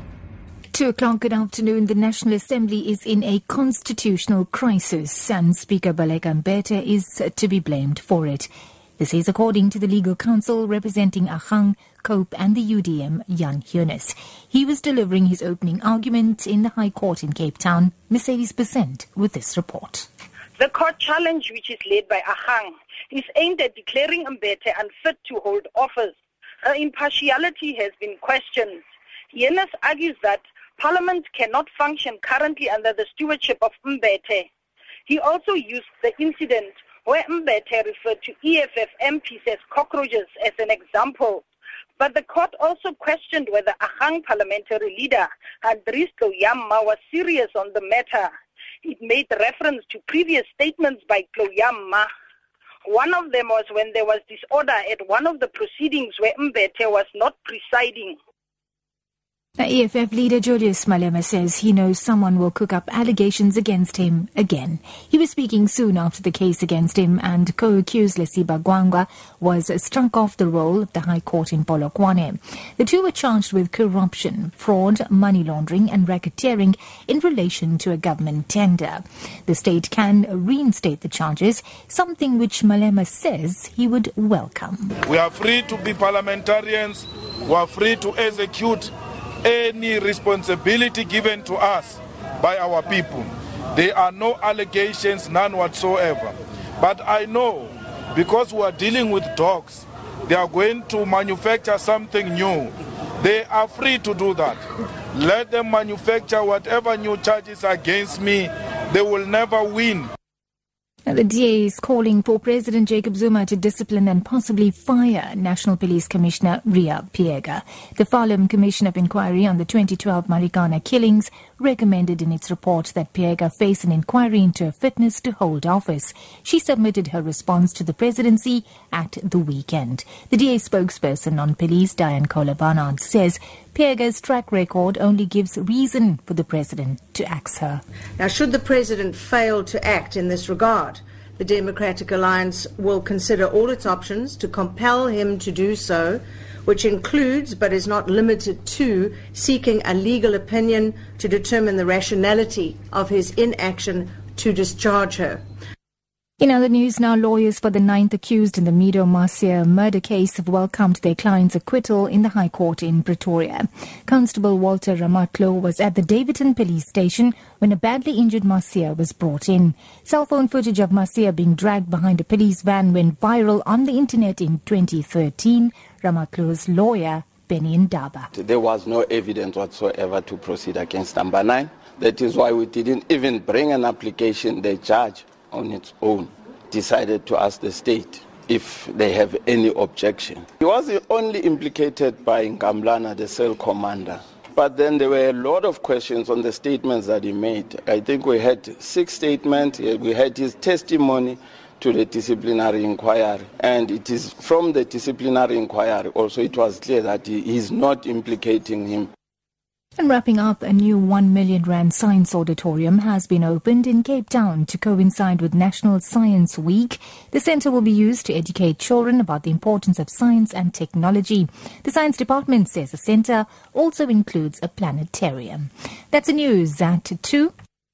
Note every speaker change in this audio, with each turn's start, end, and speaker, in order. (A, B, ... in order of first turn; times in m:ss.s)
0:00.7-0:20.1 A
0:20.6-0:28.8 B
0:29.3-0:34.5 B
0:35.1-0:41.4 B
0:42.0-0:48.3 B
0:48.8-0:52.1 B
0:52.9-0:58.2 B
0:59.6-1:25.0 A
1:25.1-1:28.9 C
1:29.4-1:44.6 C
1:45.1-1:50.1 C
1:51.1-2:17.8 A
2:18.2-2:35.4 D
2:36.4-2:58.3 A
2:58.3-3:29.1 E
3:30.0-3:47.5 A